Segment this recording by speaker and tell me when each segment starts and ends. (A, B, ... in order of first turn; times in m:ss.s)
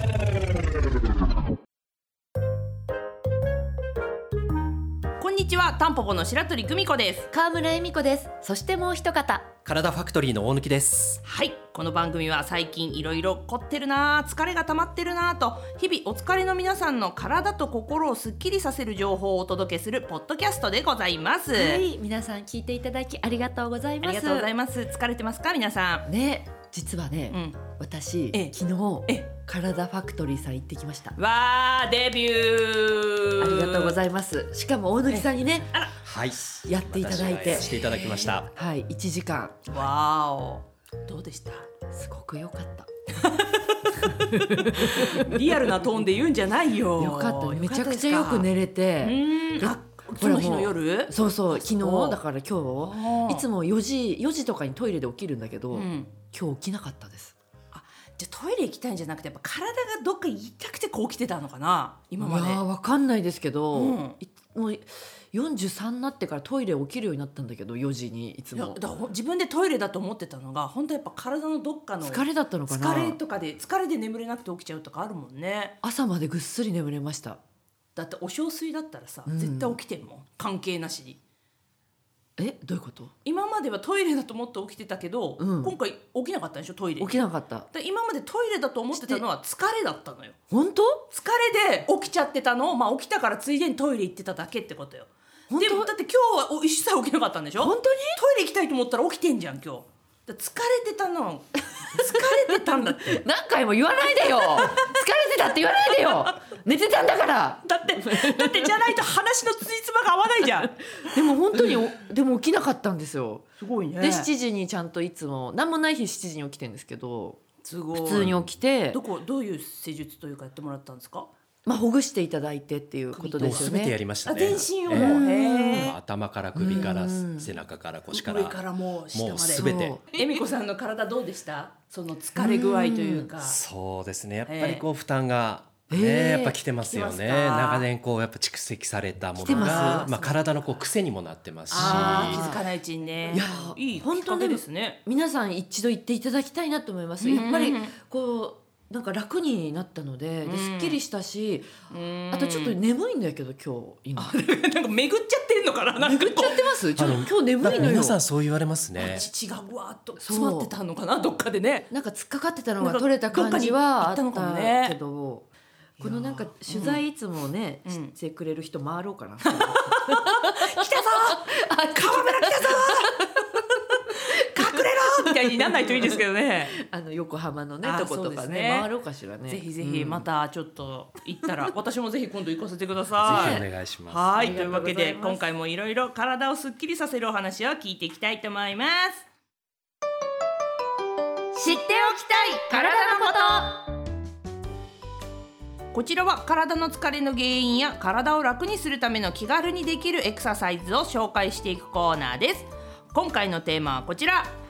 0:05.2-0:07.3 A
0:07.3-0:09.5 B
0:09.6-0:11.2 C
0:11.2-0:21.8 A
0:21.5-0:24.5 B
0:24.0-0:26.0 A
0:26.1-0:31.2 B
0:27.3-0:27.6 A
0:31.2-0:34.0 A
0:33.4-0:35.7 B
0:35.1-0:35.9 A
0:36.0-0:38.5 C
0:36.7-0:37.7 B
0:37.5-0:38.3 A
0:38.5-0:39.6 B
0:39.7-0:41.7 A
0:41.9-0:42.9 B
0:43.2-0:43.9 A
0:44.3-0:45.1 B
0:44.5-0:48.5 A
0:47.0-0:57.3 B
0:49.0-0:52.2 A
0:52.8-0:53.4 A
0:55.7-0:56.1 A
0:57.7-1:02.6 A
1:02.2-1:08.8 B
1:03.7-1:04.2 A
1:08.6-1:15.7 A
1:12.0-1:13.2 B
1:15.8-1:17.4 B
1:18.0-1:21.2 A
1:19.3-1:19.8 B
1:22.4-1:23.1 B
1:23.2-1:30.4 A
1:25.4-1:25.8 B
1:27.0-1:27.7 B
1:28.9-1:29.2 B
1:30.5-1:31.0 B
1:31.1-1:43.2 A
1:35.5-1:35.9 B
1:37.6-1:38.2 B
1:42.8-1:48.7 B
1:47.6-1:51.8 A
1:51.1-1:53.5 B
1:53.6-1:54.3 A
1:54.0-1:57.4 B
1:57.6-1:58.4 A
1:57.9-1:59.0 B
1:58.9-2:01.3 A
2:01.7-2:04.0 B
2:03.1-2:03.7 A
2:03.4-2:10.0 C
2:04.3-2:05.9 A
2:04.7-2:05.9 B
2:06.6-2:07.5 B
2:06.7-2:07.0 A
2:08.1-2:13.6 A
2:09.6-2:10.4 B
2:12.4-2:13.3 B
2:13.4-2:22.4 C
2:14.5-2:14.8 A
2:15.9-2:16.6 B
2:16.8-2:17.9 A
2:19.4-2:20.4 B
2:19.5-2:20.3 A
2:21.7-2:25.0 A
2:21.7-2:22.6 B
2:23.3-2:31.7 B
2:27.2-2:27.9 A
2:30.4-2:31.0 A
2:31.9-2:32.8 A
2:32.3-2:34.4 B
2:34.2-2:36.7 A
2:36.0-2:38.2 B
2:37.0-2:39.3 C
2:37.6-2:38.0 A
2:39.0-2:41.9 A
2:40.2-2:40.7 B
2:41.9-2:45.5 B
2:42.8-2:45.0 A
2:46.0-2:47.0 A
2:46.0-2:53.3 B
2:47.9-2:48.1 A
2:49.4-2:53.3 A
2:53.9-2:56.8 A
2:54.6-2:56.2 B
2:56.7-3:00.3 B
2:57.8-2:58.9 A
2:59.5-3:09.2 A
3:03.2-3:04.2 C
3:03.2-3:03.7 B
3:04.3-3:05.5 B
3:11.6-3:13.8 A
3:12.7-3:13.8 B
3:15.9-3:24.5 A